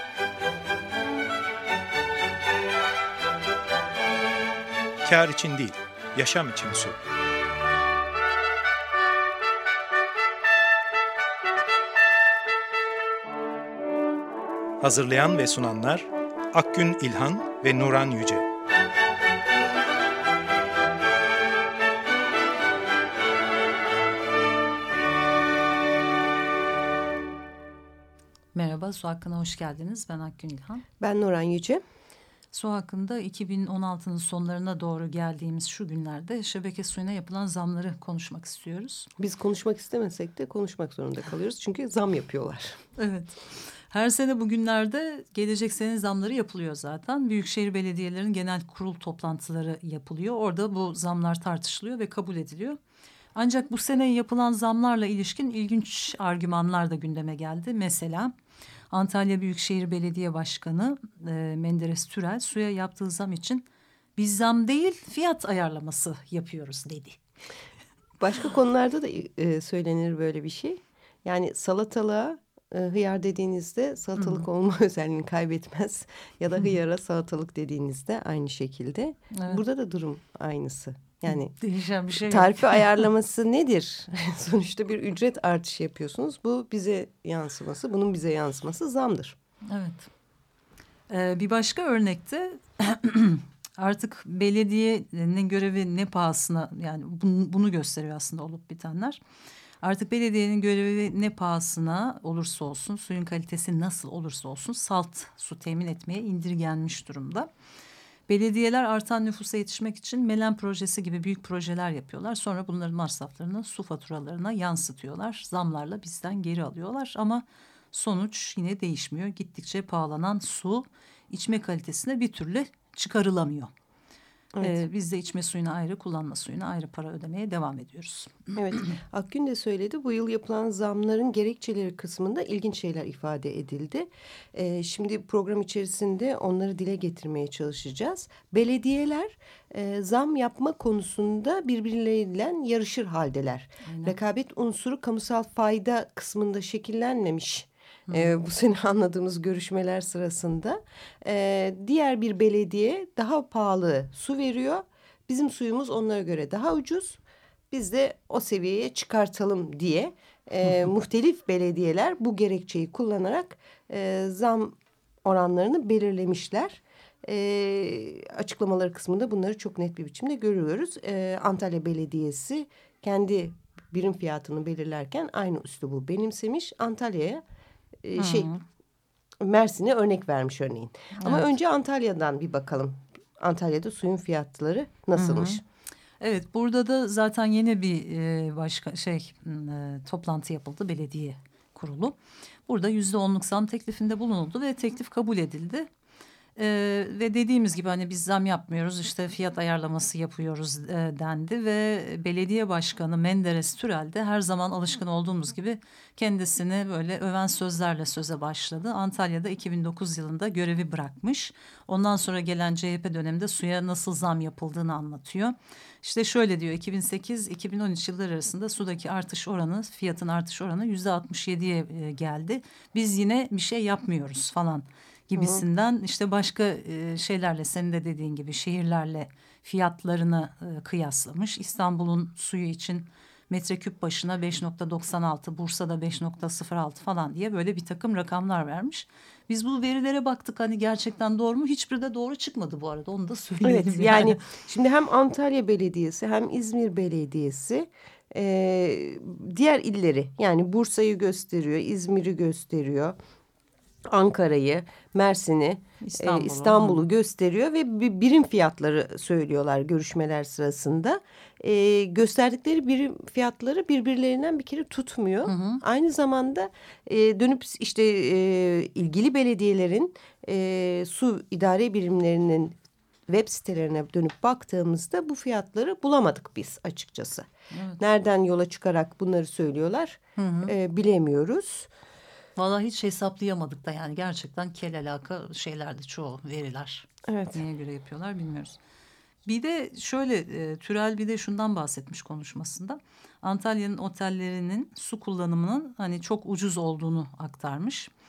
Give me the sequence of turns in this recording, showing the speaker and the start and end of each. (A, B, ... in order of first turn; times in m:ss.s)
0:05.0-0:07.0 A
0:14.8-0:18.5 A
0:28.5-0:30.8 B
0:31.0-0:31.8 C
0:32.5-0:39.1 B
0:39.2-0:42.8 C
0:43.0-0:52.8 B
0:53.3-0:58.3 B
0:58.9-1:03.7 B
1:04.2-1:07.2 B
1:08.2-1:21.6 C
1:14.2-1:14.4 B
1:19.3-1:19.6 B
1:21.5-1:22.8 B
1:22.2-1:29.4 C
1:29.7-1:30.1 B
1:31.1-1:39.2 B
1:39.8-1:47.5 B
1:48.3-2:03.7 B
2:04.6-2:08.8 B
2:08.5-2:37.2 C
2:23.8-2:24.2 B
2:28.1-2:28.3 B
2:37.7-2:57.4 C
2:58.0-2:58.5 C
2:58.2-2:58.6 B
2:59.4-3:05.6 C
3:01.2-3:01.5 B
3:05.2-3:05.6 B
3:06.2-3:15.9 B
3:16.6-4:04.4 B
3:45.3-3:45.6 C
4:03.6-4:13.1 C
4:14.1-4:32.8 C
4:16.0-4:17.0 B
4:25.4-4:25.8 B
4:33.3-4:37.5 C
4:37.7-4:38.0 B
4:38.0-4:41.9 C
4:40.4-4:40.7 B
4:42.6-4:48.8 B
4:47.3-4:47.6 C
4:49.4-4:58.1 B